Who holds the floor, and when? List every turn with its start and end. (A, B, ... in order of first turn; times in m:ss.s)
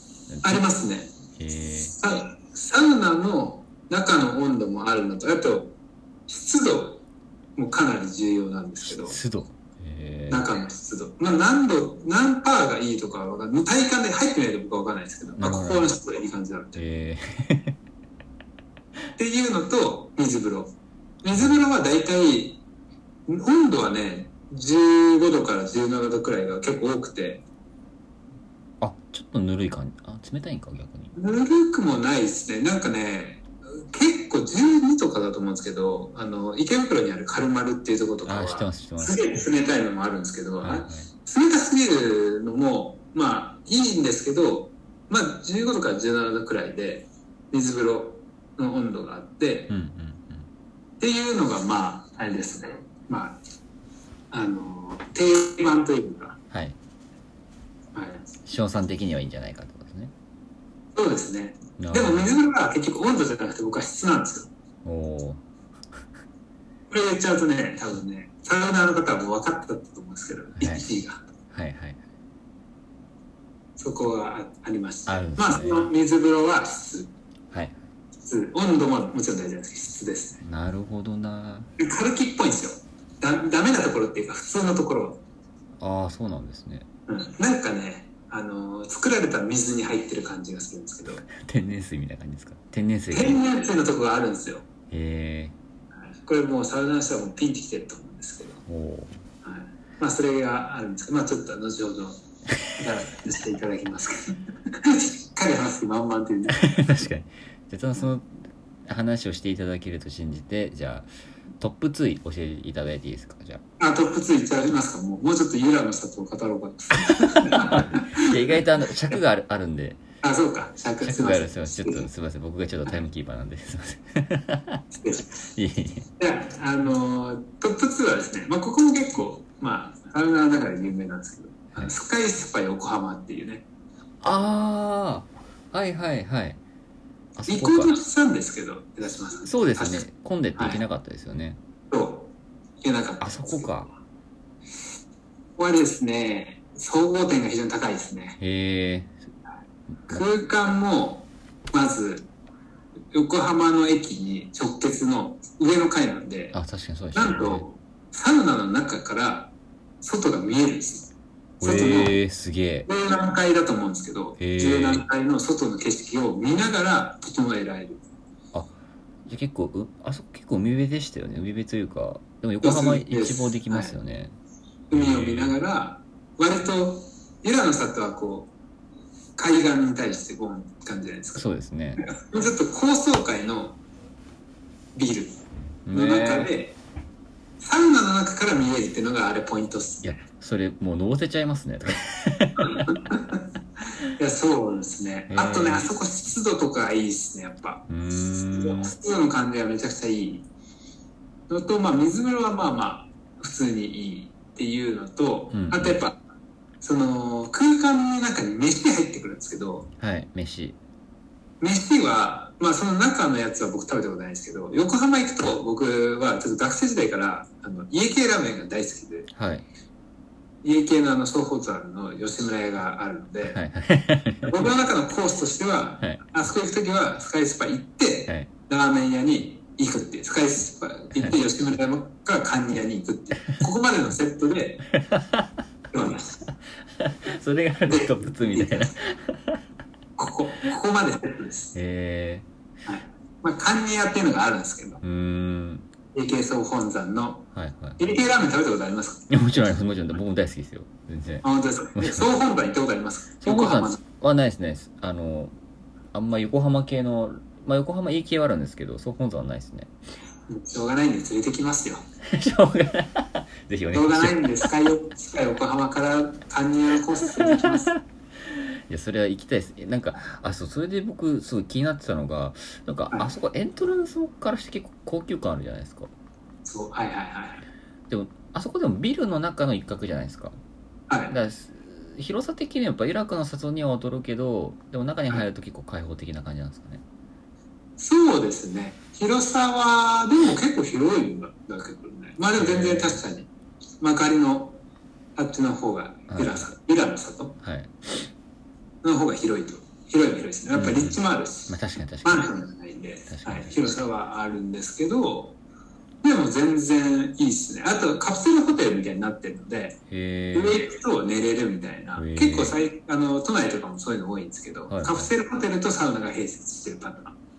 0:00.3-0:00.6 A
0:00.4-0:01.1 B
0:01.4-0:01.9 A
0:01.9-0:05.8 B
0:06.3-0:07.0 B
0:07.6-0:09.2 B
0:08.8-0:10.5 A
0:10.3-0:16.8 B
0:15.4-0:16.0 A
0:16.7-0:17.8 A
0:19.2-0:22.6 B
0:23.3-0:27.4 B
0:28.8-0:31.1 A
0:31.1-0:49.7 B
0:38.2-0:39.4 A
0:40.6-0:41.1 A
0:49.7-0:50.5 A
0:51.0-0:53.4 B
0:54.3-0:56.4 B
0:56.5-0:56.8 A
0:57.9-0:58.3 B
0:58.4-1:00.1 A
1:00.9-1:04.5 B
1:01.8-1:02.4 A
1:04.8-1:05.4 A
1:06.9-1:11.2 B
1:10.6-1:10.8 A
1:11.5-1:12.0 A
1:13.8-1:17.1 B
1:15.1-1:15.9 A
1:17.5-1:17.8 A
1:18.2-1:20.4 B
1:20.4-1:21.7 A
1:21.8-1:25.2 B
1:25.8-1:26.9 A
1:27.1-1:31.2 B
1:31.2-1:33.4 A
1:33.1-1:34.6 B
1:34.9-1:35.5 A
1:36.1-1:38.6 B
1:38.7-1:39.2 A
1:39.4-1:42.2 B
1:42.8-1:46.7 B
1:46.5-1:51.1 A
1:51.6-1:53.6 A
1:53.8-1:59.2 B
1:57.0-2:00.0 A
2:00.2-2:02.1 B
2:01.0-2:04.8 A
2:05.0-2:05.3 B
2:05.4-2:06.1 A
2:06.2-2:13.6 B
2:14.2-2:16.6 A
2:17.4-2:17.9 A
2:17.5-2:20.0 B
2:19.4-2:21.6 A
2:20.6-2:20.8 B
2:21.9-2:23.7 B
2:23.2-2:23.9 A
2:25.6-2:28.4 B
2:28.4-2:29.2 A
2:30.1-2:32.3 B
2:33.1-2:36.5 B
2:36.5-2:37.6 A
2:37.1-2:41.1 B
2:41.6-2:42.9 A
2:41.6-2:42.2 B
2:42.8-2:48.0 B
2:44.4-2:45.0 A
2:49.2-2:54.3 A
2:52.6-2:54.0 B
2:54.9-2:55.6 A
2:54.9-2:58.5 B
2:59.4-3:01.4 B
3:01.3-3:02.0 A
3:02.0-3:03.8 B
3:04.9-3:05.4 B
3:05.8-3:06.5 A
3:05.9-3:06.8 B
3:07.6-3:10.1 B
3:10.0-3:13.0 A
3:12.6-3:13.4 B
3:14.2-3:17.9 B
3:15.3-3:15.9 A
3:17.9-3:18.9 A
3:18.5-3:20.5 B
3:21.5-3:26.2 B
3:25.5-3:26.0 A
3:26.8-3:29.9 B
3:30.0-3:30.8 A
3:31.6-3:39.3 B
3:39.3-3:39.6 A
3:40.6-3:43.6 B
3:43.5-3:44.7 A
3:44.4-3:54.8 B
3:54.9-3:55.5 A
3:55.9-3:56.4 B
3:57.0-3:59.6 A
3:57.9-3:58.9 B
4:00.2-4:01.7 B
4:01.7-4:02.5 A
4:02.8-4:05.0 B
4:05.0-4:05.9 A
4:06.1-4:09.2 B
4:07.5-4:08.0 A
4:09.3-4:12.3 A
4:11.4-4:14.0 B
4:13.4-4:15.5 A
4:16.1-4:19.9 A
4:20.5-4:22.0 B
4:22.2-4:24.7 A
4:23.9-4:27.9 B
4:27.4-4:28.0 A
4:28.5-4:36.1 A
4:36.6-4:37.6 B
4:38.1-4:40.6 A
4:41.1-4:41.3 B
4:41.3-4:47.0 A
4:48.0-4:53.5 B
4:52.6-4:53.2 A
4:54.0-4:54.8 B
4:55.4-4:57.6 B
4:56.3-4:56.7 A
4:57.6-4:58.2 A
4:59.0-5:05.6 B
5:00.7-5:02.5 A
5:03.3-5:04.0 A
5:06.2-5:10.0 B
5:10.1-5:10.8 A
5:10.5-5:17.4 B
5:12.2-5:12.7 A
5:14.9-5:15.3 A